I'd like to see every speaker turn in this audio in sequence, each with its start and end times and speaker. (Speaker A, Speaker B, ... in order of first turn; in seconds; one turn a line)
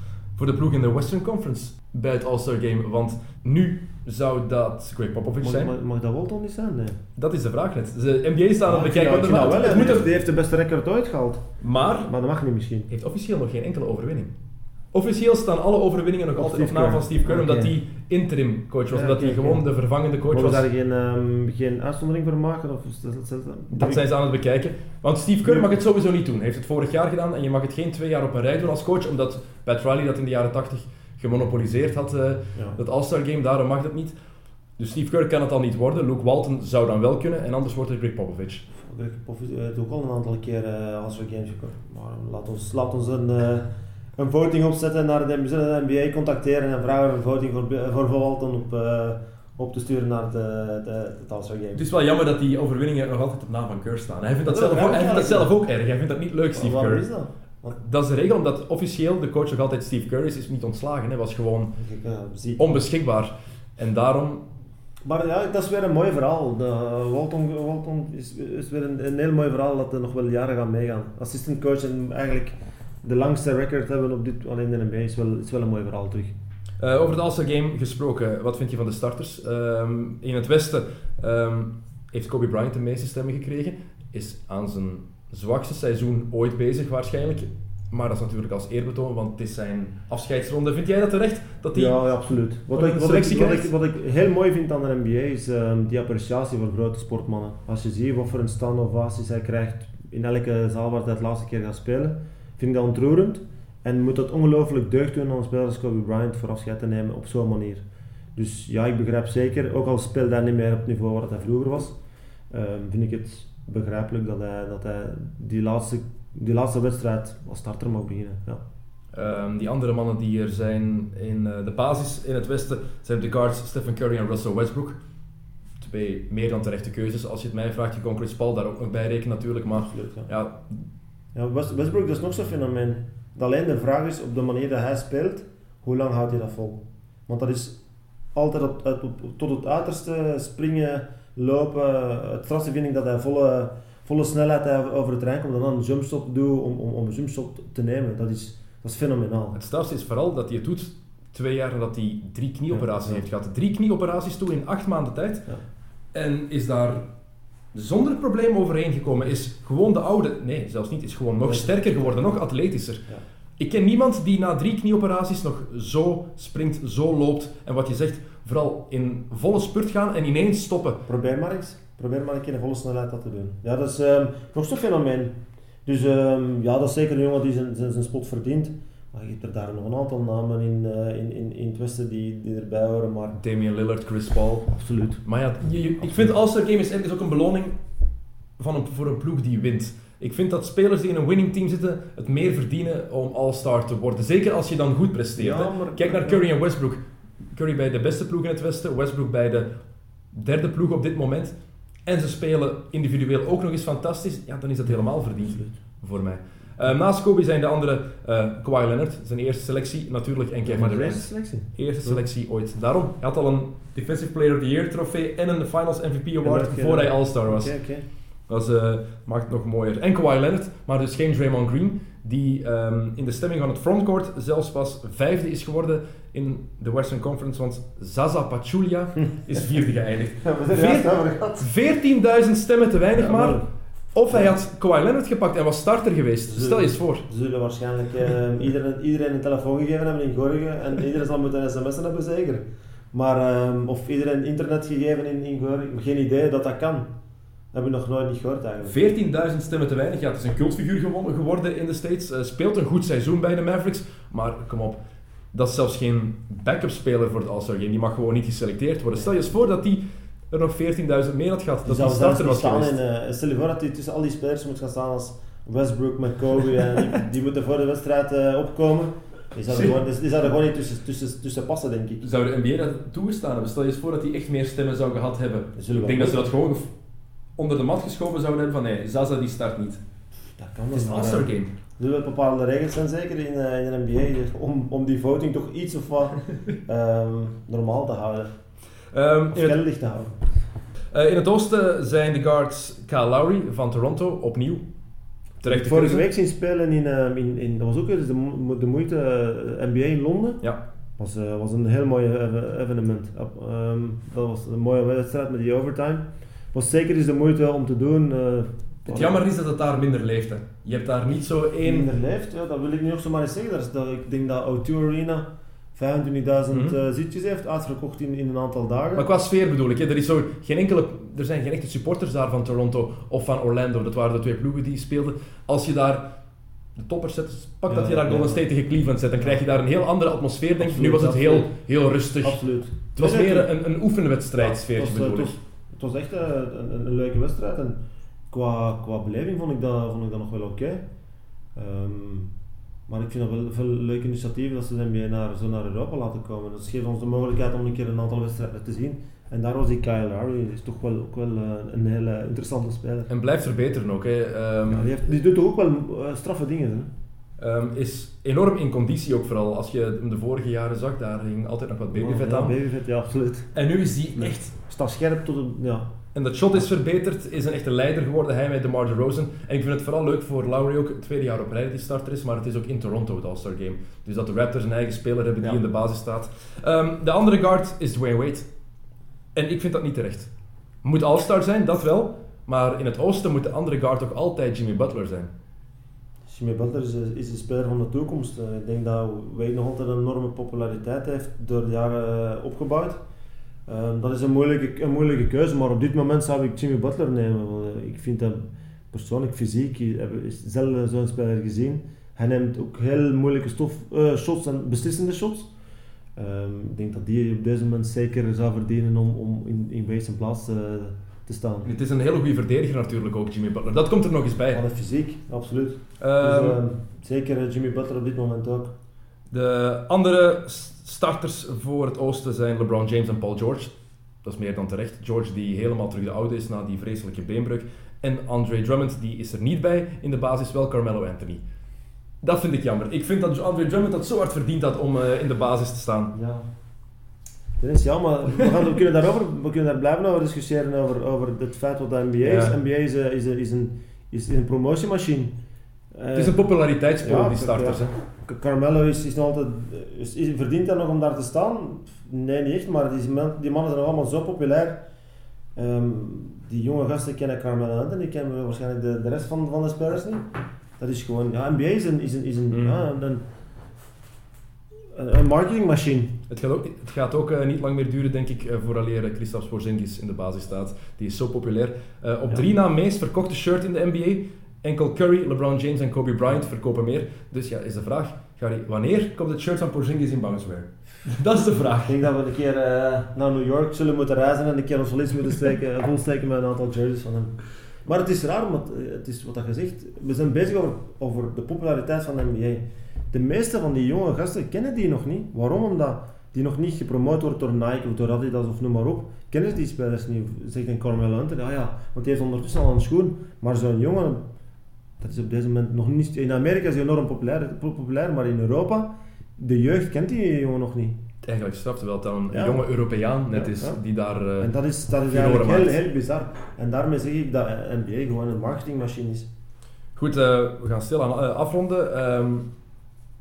Speaker A: 0.3-5.7
Speaker B: 5.4-7.0
Speaker A: 7.2-10.1
Speaker B: 8.7-12.9
Speaker A: 11.6-12.1
Speaker A: 12.9-14.3
Speaker A: 14.9-20.6
Speaker B: 16.4-17.7
Speaker B: 18.9-19.6
Speaker B: 20.3-24.0
Speaker A: 23.7-34.1
Speaker B: 25.4-25.7
Speaker A: 34.8-38.6
Speaker B: 38.7-51.8
Speaker A: 51.7-57.0
Speaker B: 54.5-55.5
Speaker B: 56.5-57.8
Speaker A: 57.7-61.8
Speaker B: 61.8-62.8
Speaker A: 62.6-64.4
Speaker B: 65.0-76.3
Speaker A: 76.8-92.0
Speaker B: 91.7-112.0
Speaker A: 92.7-93.7
Speaker B: 112.5-118.6
Speaker A: 119.1-125.0
Speaker A: 125.8-130.8
Speaker B: 129.9-130.3
Speaker B: 131.3-137.8
Speaker B: 138.3-149.6
Speaker A: 149.5-155.5
Speaker B: 152.7-153.2
Speaker A: 156.1-157.1
Speaker A: 157.7-171.0
Speaker B: 161.5-162.2
Speaker B: 171.1-183.4
Speaker A: 183.3-184.7
Speaker B: 184.7-185.2
Speaker A: 185.2-187.8
Speaker A: 188.6-199.7
Speaker B: 195.3-196.5
Speaker A: 200.3-217.7
Speaker B: 210.6-212.2
Speaker B: 216.4-218.1
Speaker A: 218.5-233.6
Speaker B: 230.4-231.7
Speaker B: 233.1-233.7
Speaker A: 234.1-237.2
Speaker B: 234.3-234.5
Speaker B: 236.5-247.1
Speaker B: 247.7-248.9
Speaker A: 248.8-255.0
Speaker A: 255.5-263.0
Speaker B: 261.8-272.2
Speaker A: 272.2-276.9
Speaker B: 275.8-276.5
Speaker A: 277.6-280.0
Speaker B: 280.6-288.5
Speaker A: 280.9-281.7
Speaker A: 289.1-289.8
Speaker B: 289.5-290.6
Speaker A: 291.1-294.8
Speaker A: 295.6-296.2
Speaker B: 295.7-300.6
Speaker B: 301.2-309.4
Speaker A: 309.1-312.1
Speaker B: 311.8-319.3
Speaker A: 316.7-316.9
Speaker A: 319.1-326.3
Speaker A: 326.9-332.6
Speaker B: 327.9-328.6
Speaker B: 330.8-331.7
Speaker B: 332.4-333.7
Speaker A: 333.1-335.6
Speaker B: 334.6-341.0
Speaker B: 341.7-342.5
Speaker B: 343.1-353.3
Speaker A: 353.3-355.2
Speaker B: 354.9-357.1
Speaker A: 357.6-362.8
Speaker B: 362.1-363.7
Speaker A: 363.7-364.7
Speaker B: 364.4-366.1
Speaker A: 366.3-378.7
Speaker A: 379.5-380.5
Speaker A: 381.0-385.5
Speaker B: 386.4-393.2
Speaker B: 393.9-405.7
Speaker B: 406.4-411.9
Speaker A: 411.8-414.8
Speaker B: 414.7-418.9
Speaker A: 416.2-416.8
Speaker A: 419.5-431.6
Speaker A: 432.4-436.3
Speaker B: 436.3-436.7
Speaker B: 437.8-445.5
Speaker A: 442.4-442.8
Speaker B: 446.1-446.6
Speaker A: 446.3-448.1
Speaker B: 447.2-455.0
Speaker B: 455.7-463.4
Speaker A: 462.7-463.0
Speaker B: 465.1-466.4
Speaker A: 466.5-482.1
Speaker B: 482.1-504.5
Speaker B: 505.2-511.2
Speaker A: 511.4-514.7
Speaker B: 512.5-512.8
Speaker B: 513.5-514.0
Speaker B: 514.6-519.5
Speaker A: 515.2-516.0
Speaker A: 520.1-522.7